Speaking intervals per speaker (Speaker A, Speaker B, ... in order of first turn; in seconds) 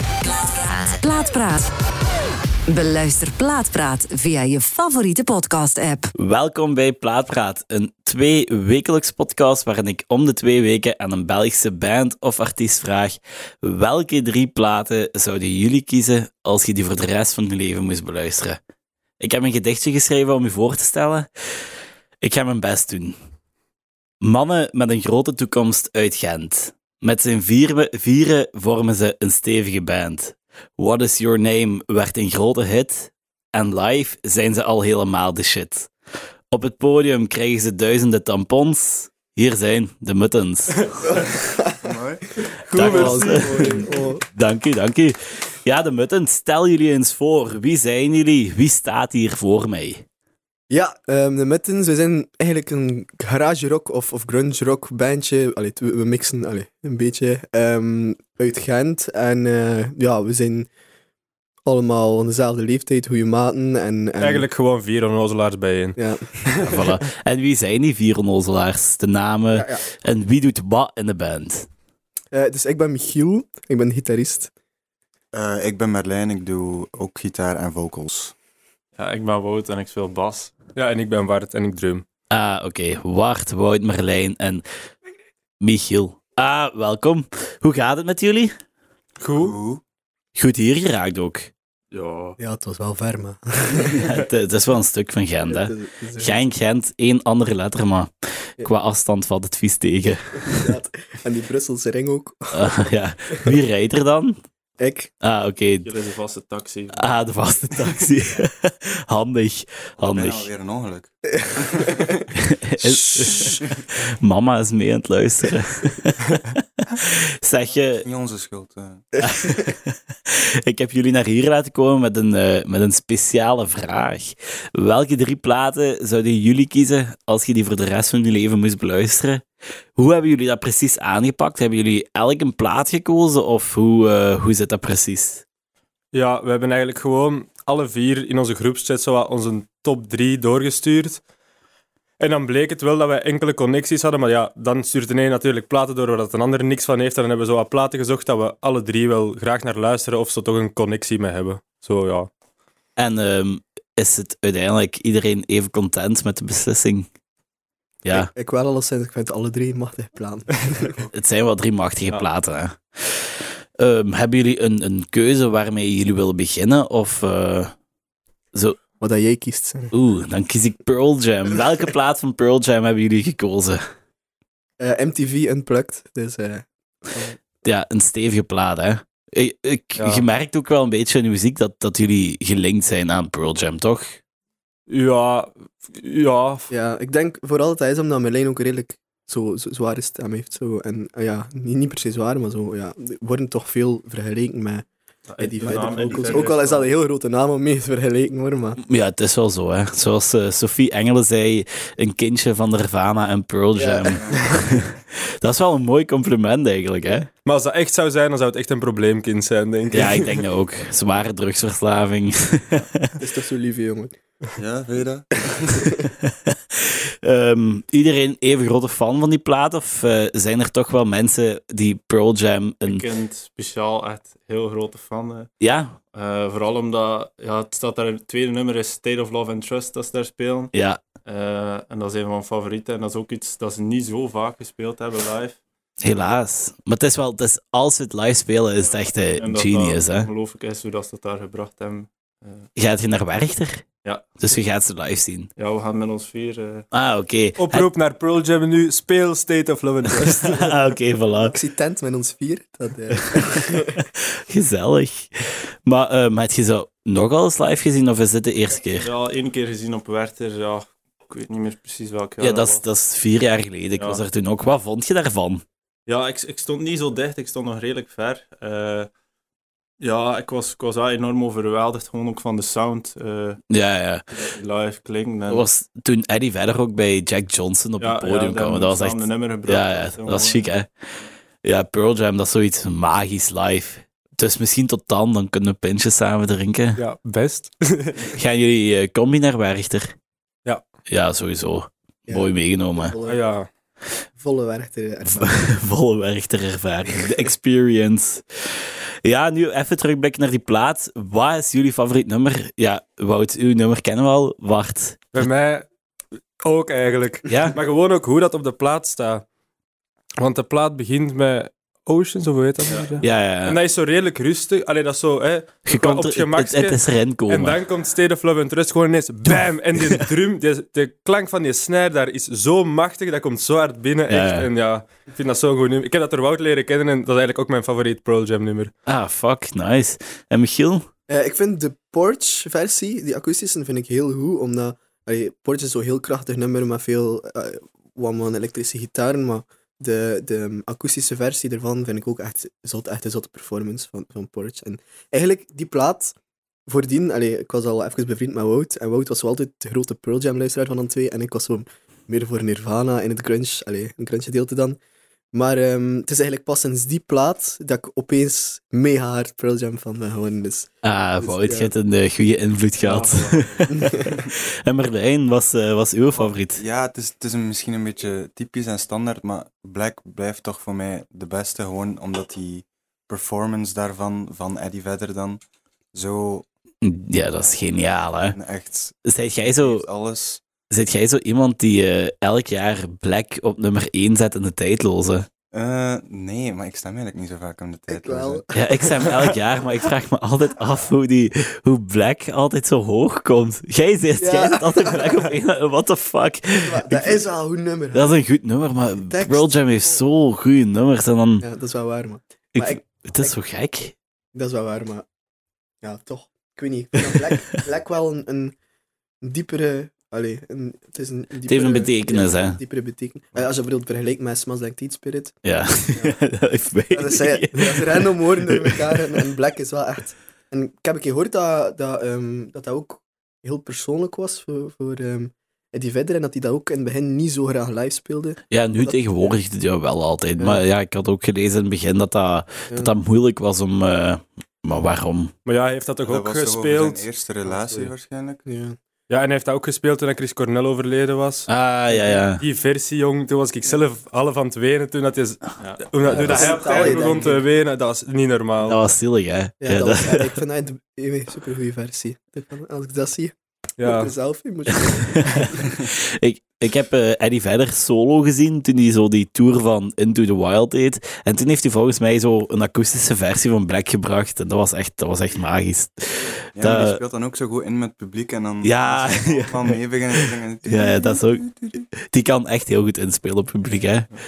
Speaker A: 0.2-1.7, 2.7-6.1
Speaker B: 6.2-18.6, 19.2-21.3, 22.2-23.1, 24.2-35.9, 36.5-41.2, 42.7-50.0, 66.6-71.7, 82.3-84.6, 85.6-88.5, 90.3-91.5, 93.8-100.7, 102.5-104.4, 105.2-105.9, 106.9-110.5, 112.3-118.0, 119.2-129.4, 129.9-135.4, 153.0-157.1, 158.0-158.3, 161.1-167.7, 168.5-168.8, 169.9-173.8, 177.6-184.2, 198.8-207.3, 209.9-213.1, 216.2-223.0, 225.6-226.0, 230.7-231.0, 236.0-240.3, 242.8-243.8, 244.4-245.5, 246.9-247.9, 250.4-251.6, 253.3-259.1, 262.4-265.6, 273.7-274.2, 275.5-280.9, 281.6-287.0, 288.3-290.1, 291.1-293.1, 295.2-305.5, 307.5-307.8, 313.2-313.8, 315.9-317.8, 319.5-320.2, 324.3-324.7, 329.1-331.1, 361.0-366.8, 377.0-378.6, 379.2-380.1, 380.9-385.5, 388.7-397.4, 398.1-401.6, 402.7-404.1, 407.3-407.6, 411.7-412.8, 415.6-419.2, 428.7-435.5, 441.7-442.6, 448.8-450.6, 455.0-467.2, 468.8-474.3
Speaker C: 41.7-42.4, 75.3-78.3, 89.3-89.8, 110.1-112.1, 118.0-119.1, 195.6-196.5, 204.1-204.9, 214.6-215.9, 363.0-363.7, 366.3-375.6, 376.1-376.7, 377.5-377.8, 378.5-380.6, 385.7-388.6, 436.2-438.6, 446.3-447.0, 466.7-472.0
Speaker D: 42.7-43.9, 64.2-66.0, 80.7-82.0, 89.2-89.6, 136.1-141.2, 142.2-152.3, 180.0-180.2, 184.9-186.7, 207.4-210.4, 247.6-250.7, 286.9-288.4, 293.2-293.7, 305.3-305.9, 306.6-309.4, 310.4-328.9, 435.6-437.2, 439.3-441.7, 442.6-449.0, 454.0-454.3
Speaker E: 42.7-44.2, 50.7-60.7, 61.6-64.5, 66.0-66.5, 69.5-69.8, 72.3-74.5, 92.4-94.1, 95.5-96.4, 100.3-102.8, 104.8-105.1, 111.4-112.1, 112.9-113.6, 158.1-161.1, 169.0-169.9, 174.8-177.4, 186.7-194.9, 195.4-198.8, 203.7-204.3, 213.2-214.2, 215.7-216.0, 251.5-254.0, 292.3-293.4, 294.4-295.7, 331.3-346.4, 346.9-355.0, 355.5-361.9, 363.9-364.4, 388.1-389.6, 394.4-395.5, 396.8-398.4, 399.2-400.2, 401.6-403.6, 404.5-405.2, 406.0-408.8, 409.4-415.6, 417.1-429.6, 438.6-438.9, 442.1-442.4, 446.3-447.6, 449.8-455.9
Speaker F: 79.0-80.6, 91.9-92.4, 105.8-107.2, 195.3-196.9, 222.8-225.5, 226.1-230.7, 231.2-235.6, 238.8-242.7, 244.0-244.3, 245.6-246.9, 259.0-262.8, 266.1-269.1, 270.0-273.6, 274.3-275.7, 278.0-280.6, 312.8-313.1, 445.8-446.0